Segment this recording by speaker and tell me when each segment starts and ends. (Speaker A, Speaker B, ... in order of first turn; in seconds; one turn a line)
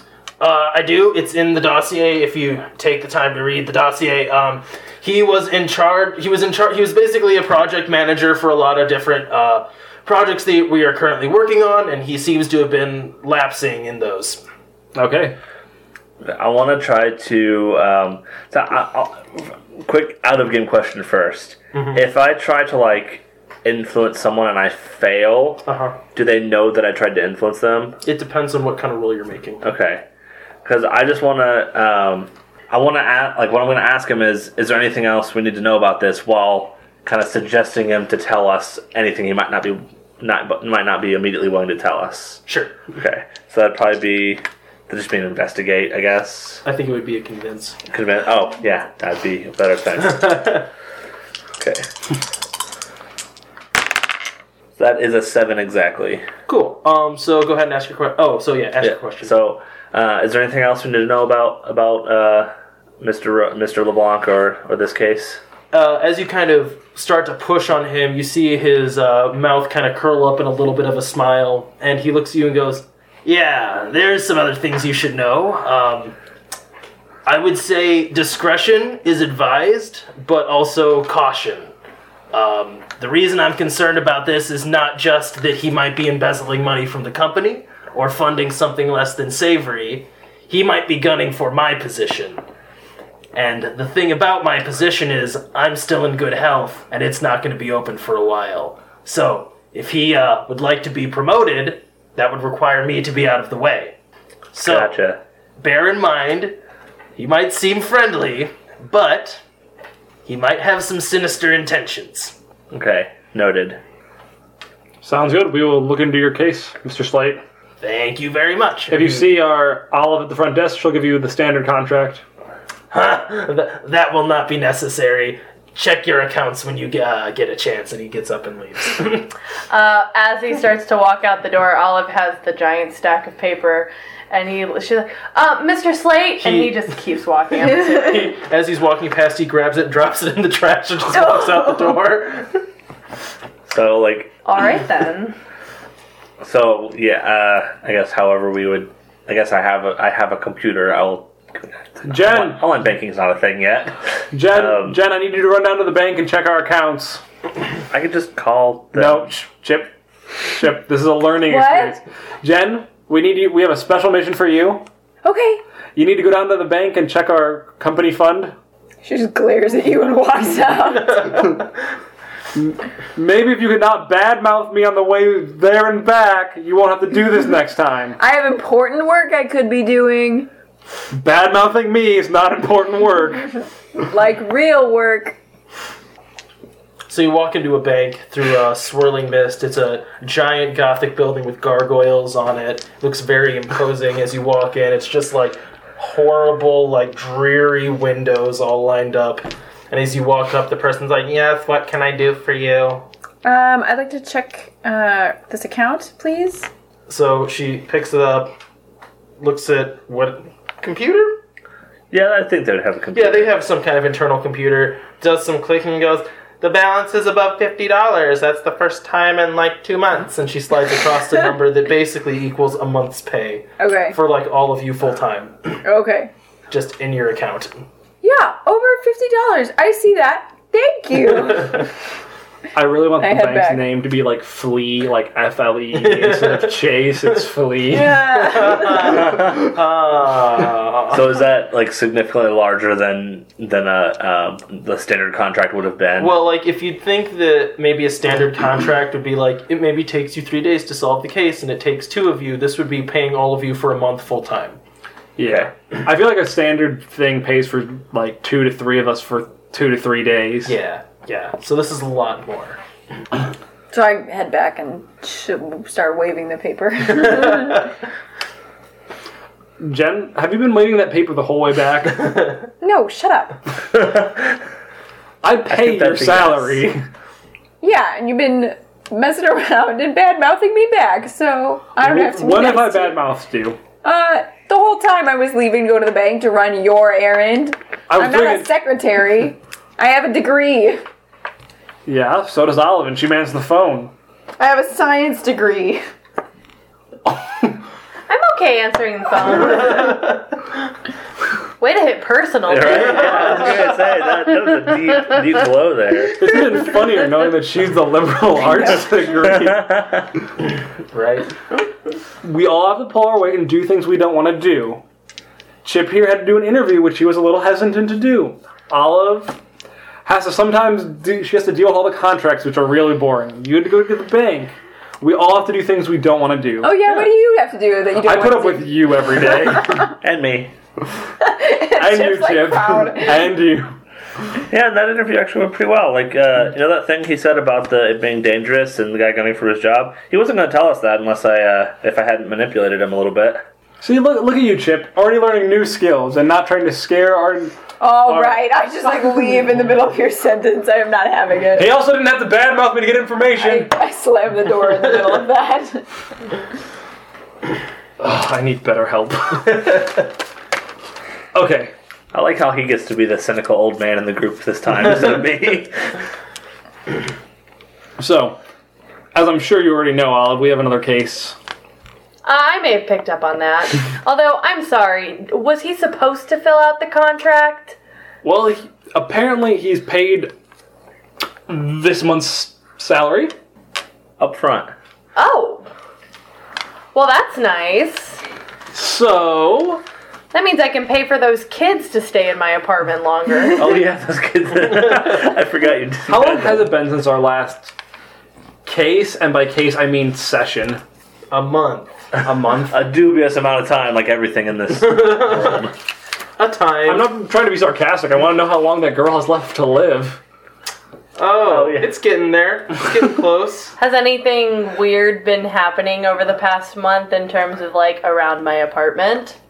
Speaker A: 0.4-14.4
Speaker B: 14.9-15.3
Speaker C: 16.2-28.0
Speaker A: 21.7-22.0
Speaker A: 25.6-26.0
Speaker A: 28.0-29.6
Speaker C: 29.6-30.0
Speaker C: 30.6-46.6
Speaker A: 42.5-42.8
Speaker A: 46.6-47.8
Speaker C: 47.9-50.5
Speaker A: 50.0-50.6
Speaker C: 51.6-51.9
Speaker C: 54.8-56.2
Speaker A: 56.5-59.3
Speaker C: 58.8-65.4
Speaker A: 65.7-76.2
Speaker A: 77.2-81.7
Speaker A: 82.3-92.4
Speaker A: 93.3-104.0
Speaker A: 104.5-105.0
Speaker C: 104.6-105.2
Speaker A: 105.6-106.6
Speaker A: 107.2-109.4
Speaker A: 110.2-112.3
Speaker C: 112.7-113.8
Speaker B: 115.0-117.4
Speaker A: 117.8-119.3
Speaker B: 118.9-122.2
Speaker A: 122.9-129.3
Speaker D: 129.7-138.3
Speaker A: 136.4-136.8
Speaker A: 137.8-142.6
Speaker E: 141.2-141.8
Speaker C: 143.7-144.3
Speaker D: 144.4-145.3
Speaker C: 146.4-155.0
Speaker B: 152.1-152.6
Speaker B: 154.3-157.2
Speaker C: 157.9-159.3
Speaker B: 158.9-164.8
Speaker E: 161.5-162.0
Speaker E: 165.2-165.6
Speaker B: 165.9-168.5
Speaker E: 169.0-171.6
Speaker B: 172.5-178.2
Speaker E: 178.2-180.5
Speaker B: 181.1-183.5
Speaker E: 184.0-185.4
Speaker A: 187.1-203.1
Speaker E: 203.4-206.7
Speaker A: 207.1-208.5
Speaker A: 209.4-211.4
Speaker C: 212.1-213.5
Speaker A: 213.1-225.8
Speaker E: 223.8-224.2
Speaker E: 225.8-226.3
Speaker A: 226.7-227.8
Speaker E: 228.2-231.9
Speaker B: 232.7-238.2
Speaker E: 233.2-233.9
Speaker A: 235.9-237.4
Speaker E: 237.9-239.3
Speaker A: 238.3-241.3
Speaker C: 239.3-239.6
Speaker C: 241.1-246.3
Speaker A: 246.2-254.8
Speaker B: 255.4-260.7
Speaker A: 260.6-262.8
Speaker E: 263.9-267.9
Speaker B: 269.8-272.5
Speaker A: 272.3-272.6
Speaker E: 272.8-273.6
Speaker C: 273.9-274.5
Speaker B: 275.4-277.0
Speaker C: 275.7-276.8
Speaker E: 277.8-283.2
Speaker B: 282.0-283.8
Speaker E: 284.0-291.0
Speaker B: 288.1-288.7
Speaker B: 292.1-294.1
Speaker E: 294.6-296.0
Speaker D: 298.3-300.3
Speaker D: 301.8-303.9
Speaker C: 302.7-306.5
Speaker B: 306.4-310.1
Speaker C: 309.5-310.3
Speaker A: 311.1-311.5
Speaker B: 312.4-315.0
Speaker B: 315.8-319.6
Speaker B: 320.2-327.2
Speaker E: 326.8-330.1
Speaker B: 328.2-330.1
Speaker C: 330.2-330.7
Speaker E: 331.4-333.5
Speaker B: 331.9-333.9
Speaker C: 334.7-343.6
Speaker B: 344.0-348.6
Speaker E: 348.0-352.0
Speaker B: 351.8-353.9
Speaker E: 353.6-356.1
Speaker B: 358.2-360.2
Speaker B: 361.5-361.9
Speaker C: 362.3-366.2
Speaker B: 368.2-368.6
Speaker B: 369.3-371.6
Speaker D: 372.4-377.9
Speaker B: 378.4-380.5
Speaker B: 381.7-383.5
Speaker C: 384.4-384.9
Speaker D: 385.4-385.9
Speaker D: 387.1-388.4
Speaker B: 388.9-390.0
Speaker D: 390.5-393.9
Speaker C: 393.7-396.9
Speaker B: 396.3-397.9
Speaker B: 398.8-401.0
Speaker A: 401.5-403.1
Speaker C: 402.9-405.9
Speaker A: 404.9-405.9
Speaker A: 406.6-407.3
Speaker B: 407.0-410.4
Speaker A: 411.4-413.9
Speaker C: 411.6-412.1
Speaker D: 414.0-419.6